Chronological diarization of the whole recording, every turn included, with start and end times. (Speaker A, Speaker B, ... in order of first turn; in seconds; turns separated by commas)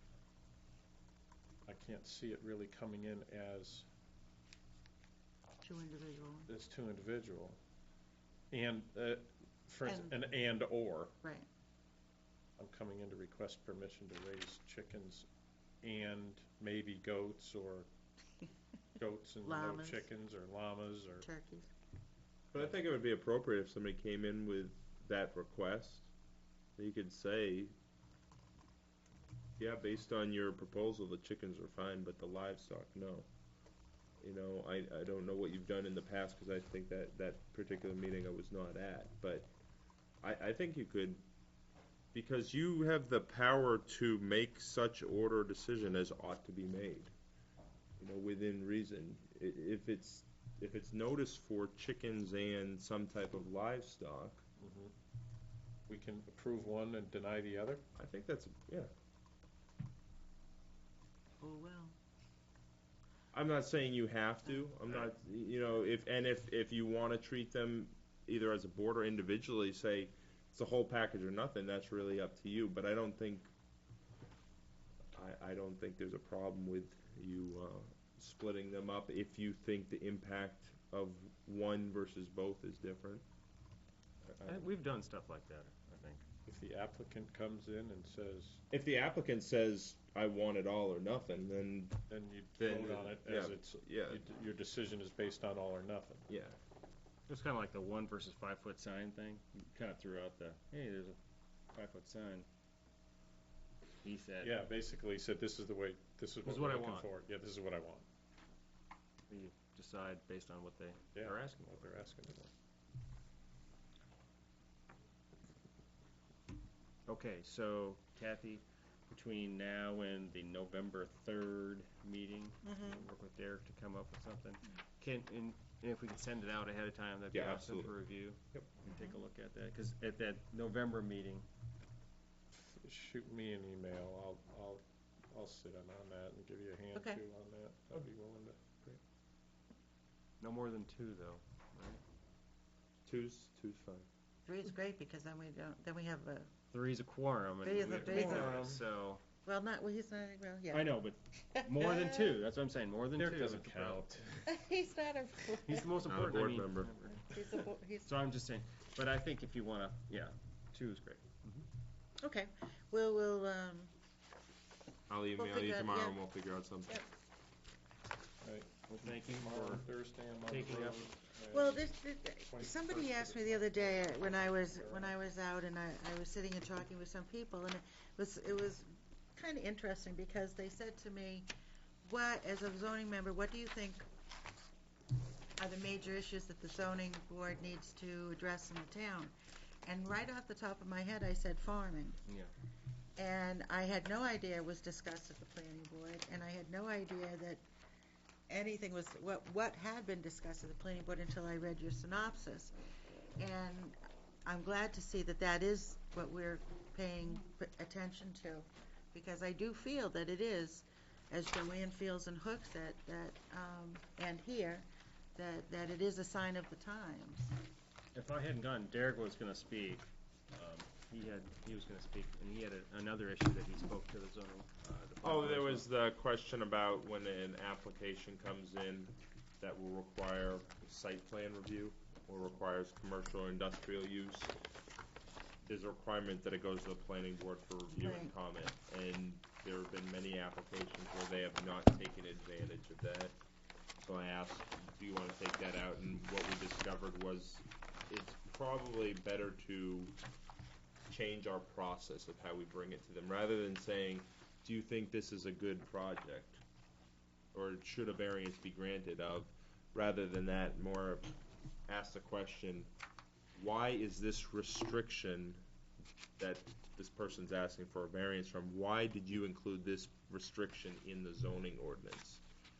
Speaker A: 1.6-3.9, Speaker B: 5.6-6.5, Speaker A: 6.5-7.6, Speaker A: 8.5-11.1, Speaker B: 9.8-10.1, Speaker B: 11.2-11.5, Speaker A: 12.6-15.3, Speaker A: 15.8-17.9, Speaker A: 19.0-21.3, Speaker B: 19.4-20.1, Speaker B: 21.2-21.7, Speaker C: 22.5-26.1, Speaker C: 26.8-27.7, Speaker C: 29.6-33.3, Speaker C: 34.2-39.5, Speaker C: 40.2-41.2, Speaker C: 42.1-47.1, Speaker C: 48.0-54.4, Speaker A: 54.6-54.9, Speaker A: 55.9-57.8, Speaker C: 57.9-58.9, Speaker B: 61.4-61.9, Speaker C: 63.3-73.5, Speaker C: 75.1-83.2, Speaker C: 84.2-84.7, Speaker D: 84.4-86.2, Speaker A: 86.5-88.6, Speaker C: 88.7-92.0, Speaker A: 92.1-96.3, Speaker C: 92.6-94.2, Speaker C: 96.3-96.6, Speaker D: 97.3-101.2, Speaker D: 101.7-102.5, Speaker D: 104.0-104.6, Speaker A: 104.4-108.0, Speaker D: 106.4-107.1, Speaker D: 109.3-111.9, Speaker A: 111.1-112.5, Speaker D: 117.1-131.4, Speaker B: 122.6-123.1, Speaker C: 127.3-127.9, Speaker B: 128.9-129.2, Speaker A: 132.5-138.6, Speaker B: 136.9-137.2, Speaker D: 140.4-142.0, Speaker C: 143.1-144.1, Speaker B: 144.4-146.5, Speaker D: 146.7-149.2, Speaker B: 147.6-148.6, Speaker C: 148.0-148.7, Speaker A: 148.2-148.8, Speaker B: 149.4-152.4, Speaker D: 150.7-154.1, Speaker A: 153.2-154.5, Speaker B: 154.4-156.0, Speaker D: 155.6-161.4, Speaker C: 156.0-157.0, Speaker B: 157.1-158.1, Speaker B: 162.2-163.9, Speaker C: 165.1-167.0, Speaker B: 165.4-166.2, Speaker A: 168.4-175.2, Speaker D: 168.9-169.8, Speaker D: 170.5-171.1, Speaker B: 171.5-181.5, Speaker B: 182.0-184.1, Speaker B: 185.6-189.3, Speaker B: 189.8-192.2, Speaker D: 192.3-192.5, Speaker B: 193.2-197.6, Speaker B: 198.5-202.7, Speaker B: 203.4-217.6, Speaker D: 218.1-225.9, Speaker C: 225.2-234.5, Speaker C: 235.6-243.3, Speaker B: 237.9-238.3, Speaker C: 244.0-250.2, Speaker C: 251.1-256.6, Speaker C: 257.5-261.3, Speaker C: 261.9-262.9, Speaker C: 263.5-265.6, Speaker C: 266.4-272.4